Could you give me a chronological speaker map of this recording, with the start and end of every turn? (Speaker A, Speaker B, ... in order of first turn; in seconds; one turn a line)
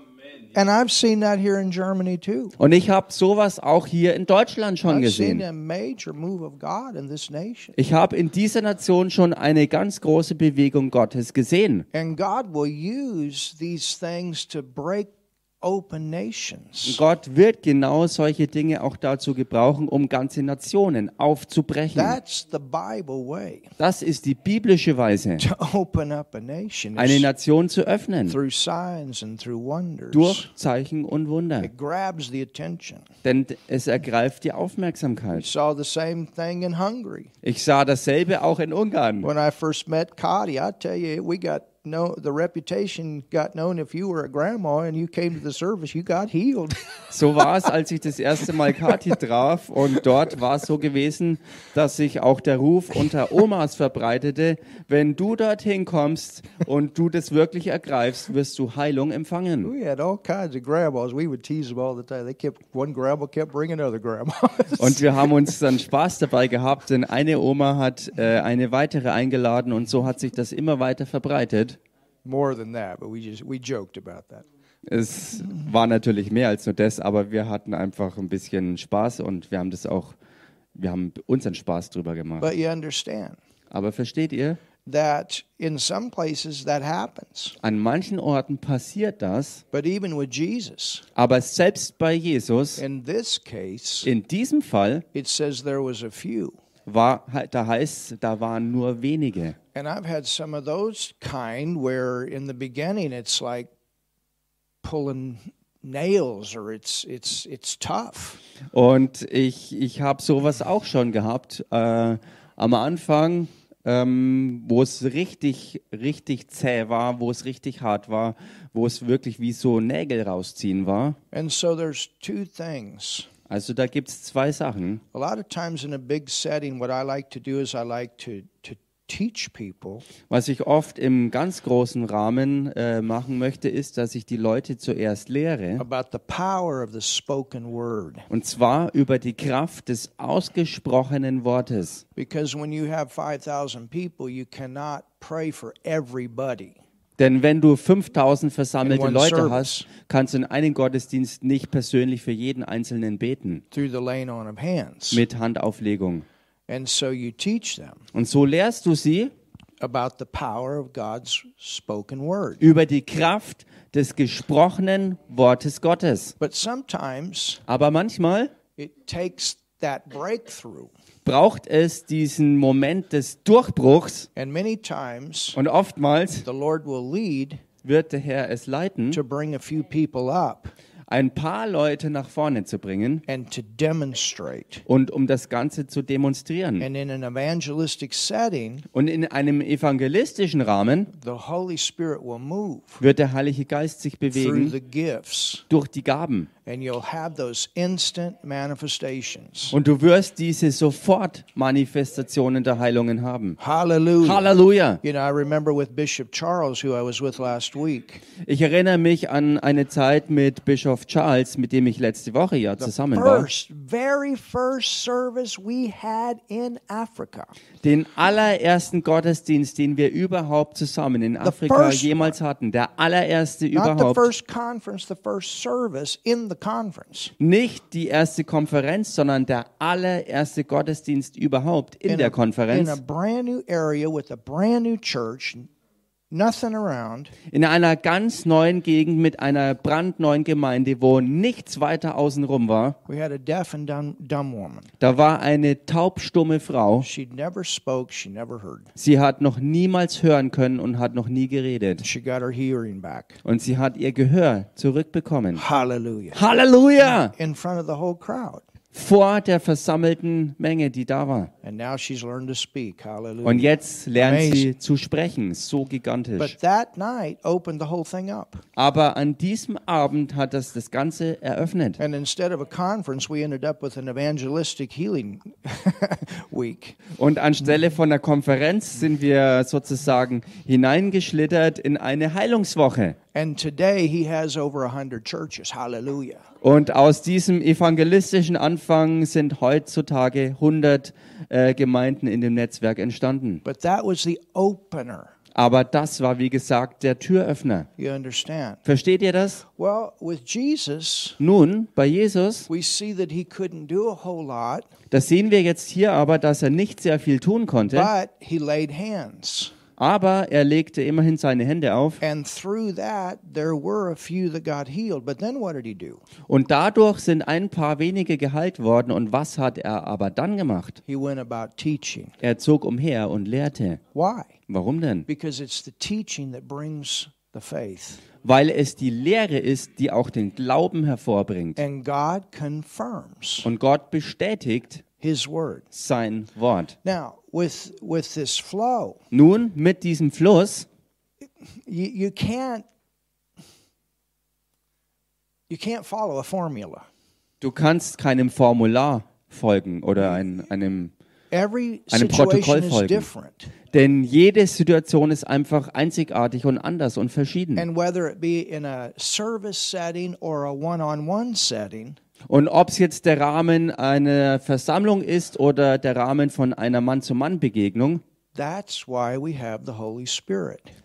Speaker A: 0.5-2.5
Speaker B: 2.6-5.4
Speaker A: 4.8-7.7
Speaker B: 7.7-11.8
Speaker A: 11.9-17.0
Speaker B: 16.9-22.2
Speaker A: 21.9-23.7
Speaker B: 23.8-25.4
Speaker A: 25.4-27.2
Speaker B: 26.9-28.4
Speaker A: 28.3-30.5
Speaker B: 30.1-31.7
Speaker A: 31.6-33.1
Speaker B: 33.2-35.5
Speaker A: 35.3-37.3
Speaker B: 37.4-39.3
Speaker A: 39.2-46.9
Speaker B: 47.1-59.7
Speaker A: 59.6-65.1
Speaker B: 64.8-71.8
Speaker A: 72.2-74.4
Speaker B: 74.8-80.2
Speaker B: 80.7-82.5
Speaker A: 82.4-83.4
Speaker B: 83.7-84.6
Speaker A: 84.8-87.6
Speaker B: 87.6-89.6
Speaker A: 89.7-91.0
Speaker B: 91.2-92.8
Speaker A: 92.8-94.1
Speaker B: 94.0-95.0
Speaker A: 95.1-96.6
Speaker B: 96.8-99.6
Speaker A: 99.7-103.7
Speaker A: 104.8-108.4
Speaker B: 108.7-121.2
Speaker A: 121.3-123.3
Speaker B: 123.5-125.0
Speaker A: 125.1-130.1
Speaker B: 130.3-135.8
Speaker A: 135.8-138.3
Speaker B: 138.3-142.0
Speaker A: 142.2-146.8
Speaker B: 147.2-153.6
Speaker A: 148.8-149.9
Speaker A: 153.7-155.2
Speaker B: 155.1-156.2
Speaker A: 156.7-158.0
Speaker B: 158.1-159.3
Speaker A: 159.8-162.6
Speaker B: 162.6-166.3
Speaker A: 166.4-167.6
Speaker B: 167.7-168.5
Speaker A: 168.8-170.9
Speaker B: 171.2-174.3
Speaker A: 174.3-175.6
Speaker B: 175.6-176.4
Speaker A: 176.4-177.6
Speaker B: 177.8-179.2
Speaker A: 179.1-180.7
Speaker B: 181.1-183.2
Speaker A: 183.3-184.8
Speaker B: 184.8-186.8
Speaker A: 186.8-188.8
Speaker B: 188.9-191.1
Speaker A: 191.1-193.0
Speaker B: 193.0-194.7
Speaker A: 194.3-195.6
Speaker B: 195.7-196.5
Speaker A: 196.7-199.8
Speaker B: 199.7-203.6
Speaker A: 203.6-204.5
Speaker B: 204.2-205.0
Speaker A: 205.0-208.2
Speaker B: 208.4-213.5
Speaker A: 212.8-217.5
Speaker B: 217.8-224.3
Speaker A: 221.4-222.3
Speaker A: 223.7-227.3
Speaker B: 227.4-233.0
Speaker A: 232.1-235.7
Speaker A: 236.3-237.3
Speaker B: 237.5-243.0
Speaker A: 243.1-244.9
Speaker B: 245.0-247.1
Speaker A: 247.0-248.9
Speaker B: 248.9-252.0
Speaker A: 252.0-253.4
Speaker B: 253.4-255.6
Speaker A: 255.5-256.4
Speaker B: 256.3-257.3
Speaker A: 257.1-258.6
Speaker B: 258.9-261.5
Speaker A: 261.6-264.7
Speaker B: 263.4-266.5
Speaker A: 266.4-268.6
Speaker B: 268.8-272.0
Speaker A: 272.0-277.0
Speaker B: 277.1-283.2
Speaker A: 283.3-286.4
Speaker B: 286.6-293.6
Speaker A: 293.6-295.3
Speaker B: 295.5-297.9
Speaker A: 298.0-298.8
Speaker B: 298.9-299.6
Speaker A: 299.7-301.4
Speaker B: 301.4-302.7
Speaker A: 302.7-304.9
Speaker B: 305.1-308.1
Speaker A: 307.9-309.7
Speaker B: 310.0-312.2
Speaker A: 312.2-316.2
Speaker B: 316.5-321.0
Speaker A: 321.1-322.3
Speaker B: 322.4-324.0
Speaker A: 324.1-324.5
Speaker B: 324.7-325.2
Speaker A: 325.3-328.2
Speaker B: 328.4-331.8
Speaker A: 331.8-333.7
Speaker B: 333.6-335.0
Speaker A: 335.2-335.9
Speaker B: 335.9-336.9
Speaker A: 337.0-339.2
Speaker B: 339.3-340.9
Speaker A: 341.9-342.9
Speaker A: 345.7-347.1
Speaker B: 347.6-351.1
Speaker A: 351.5-353.7
Speaker B: 352.1-353.3
Speaker B: 353.9-357.9
Speaker A: 357.8-362.2
Speaker B: 362.5-368.2
Speaker A: 368.5-370.9